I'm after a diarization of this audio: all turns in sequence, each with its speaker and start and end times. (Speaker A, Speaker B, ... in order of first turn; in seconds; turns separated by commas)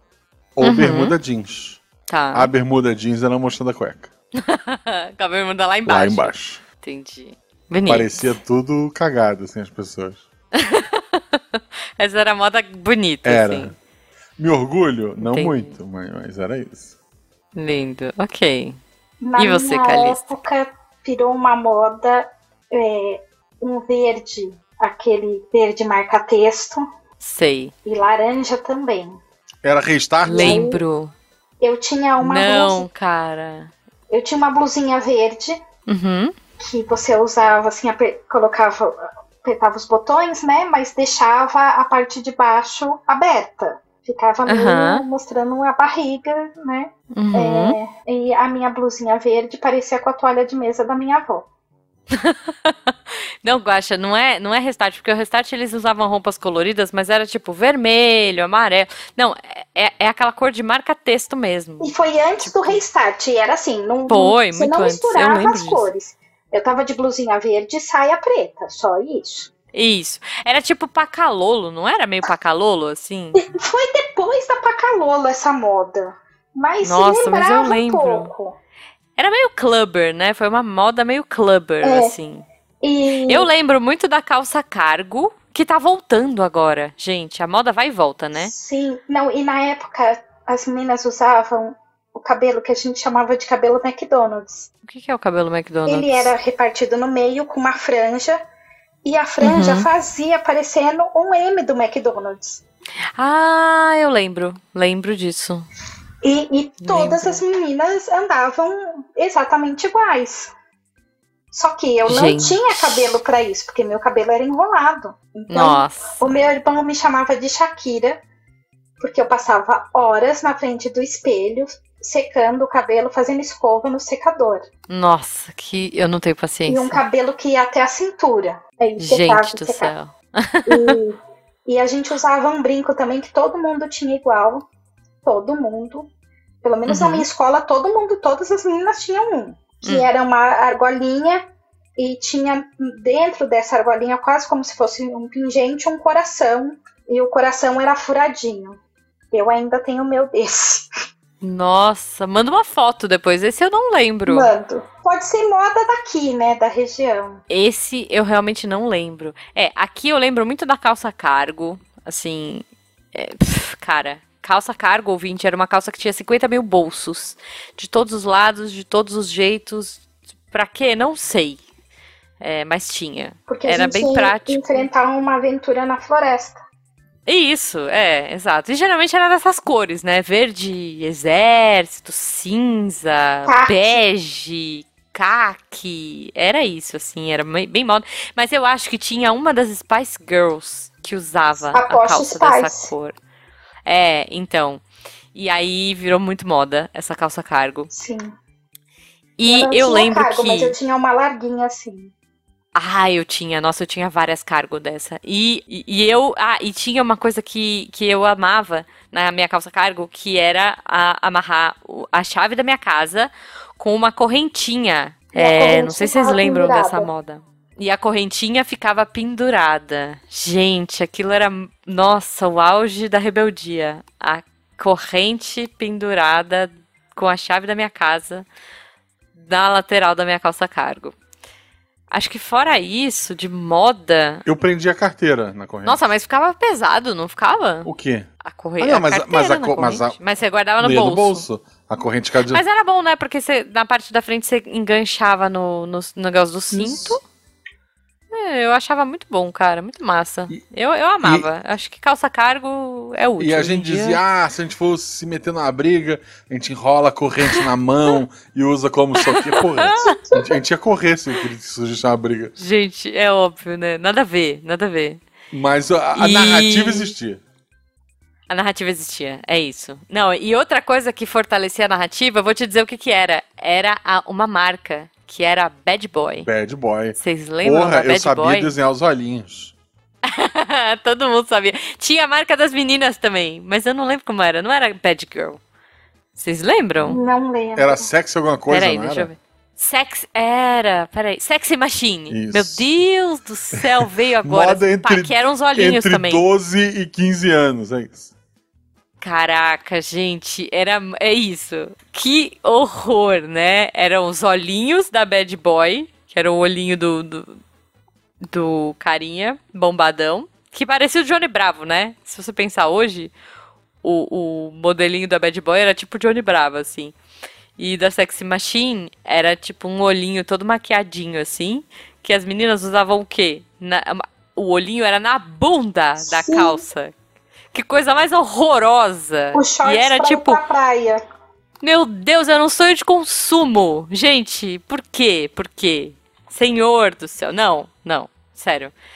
Speaker A: 0.6-1.8, Speaker B: 0.6-1.2, Speaker B: 2.1-2.5, Speaker A: 2.3-4.1, Speaker B: 4.4-8.3, Speaker A: 5.9-6.6, Speaker A: 7.9-10.2, Speaker B: 10.6-13.8, Speaker A: 13.2-13.8, Speaker A: 14.4-16.9, Speaker B: 15.2-15.8, Speaker B: 17.6-18.8, Speaker C: 19.2-26.8, Speaker B: 19.4-20.3, Speaker B: 27.2-27.7, Speaker C: 27.9-29.2, Speaker A: 29.6-30.6, Speaker B: 30.2-31.1, Speaker C: 30.3-30.8, Speaker C: 31.6-32.9, Speaker B: 32.2-33.7, Speaker C: 34.1-35.6, Speaker B: 35.9-36.3, Speaker C: 36.6-51.5, Speaker B: 44.5-45.1, Speaker B: 47.1-47.8, Speaker B: 52.1-52.9, Speaker B: 53.4-62.8, Speaker C: 61.8-69.5, Speaker B: 64.1-65.9, Speaker B: 69.7-73.4, Speaker C: 73.4-78.6, Speaker B: 76.8-78.3, Speaker B: 79.2-82.5, Speaker C: 81.8-82.1, Speaker C: 82.8-83.5, Speaker B: 83.3-88.5, Speaker C: 88.3-94.7, Speaker B: 94.9-96.3, Speaker C: 95.9-98.4, Speaker C: 99.0-102.6, Speaker B: 99.4-99.9, Speaker B: 103.2-105.7, Speaker C: 106.2-110.5, Speaker B: 106.8-107.4, Speaker C: 111.5-118.2, Speaker B: 112.1-113.2, Speaker B: 115.5-116.2, Speaker C: 119.0-124.7, Speaker B: 124.9-127.0, Speaker C: 126.7-129.9, Speaker B: 129.0-131.0, Speaker C: 130.7-134.7, Speaker C: 135.2-136.1, Speaker C: 136.6-141.4, Speaker B: 136.9-137.3, Speaker B: 139.8-140.1, Speaker C: 142.0-148.8, Speaker C: 149.3-150.9, Speaker B: 151.4-154.5, Speaker C: 154.3-157.4, Speaker B: 157.5-171.6, Speaker B: 172.4-174.9, Speaker C: 173.5-176.6, Speaker B: 177.3-193.2, Speaker C: 183.5-184.0, Speaker C: 191.7-192.9, Speaker B: 193.9-194.8, Speaker B: 195.3-197.9, Speaker C: 197.9-198.4, Speaker B: 199.4-200.8, Speaker C: 199.5-202.1, Speaker B: 202.8-228.5, Speaker C: 215.3-217.1, Speaker B: 229.3-231.2, Speaker B: 232.1-234.4, Speaker A: 234.4-236.0, Speaker B: 235.8-237.9, Speaker A: 237.8-238.3, Speaker B: 238.4-241.5, Speaker A: 238.8-240.2, Speaker A: 240.8-242.6, Speaker B: 242.5-247.2, Speaker A: 246.7-247.2, Speaker B: 248.3-254.2, Speaker A: 251.2-251.5, Speaker A: 253.4-262.5, Speaker B: 259.2-260.2, Speaker B: 262.6-265.2, Speaker A: 265.5-267.4, Speaker B: 266.1-267.1, Speaker B: 268.5-276.5, Speaker A: 276.4-279.7, Speaker B: 277.2-278.8, Speaker B: 280.3-285.6, Speaker B: 286.4-287.2, Speaker C: 287.1-288.1, Speaker A: 287.8-289.3, Speaker B: 288.7-296.4, Speaker A: 292.3-292.9, Speaker A: 293.8-298.3, Speaker B: 299.2-307.6, Speaker B: 308.5-313.3, Speaker B: 314.0-317.1, Speaker B: 317.8-327.1, Speaker C: 326.2-326.8, Speaker B: 327.7-330.6, Speaker C: 329.5-331.2, Speaker B: 331.8-338.9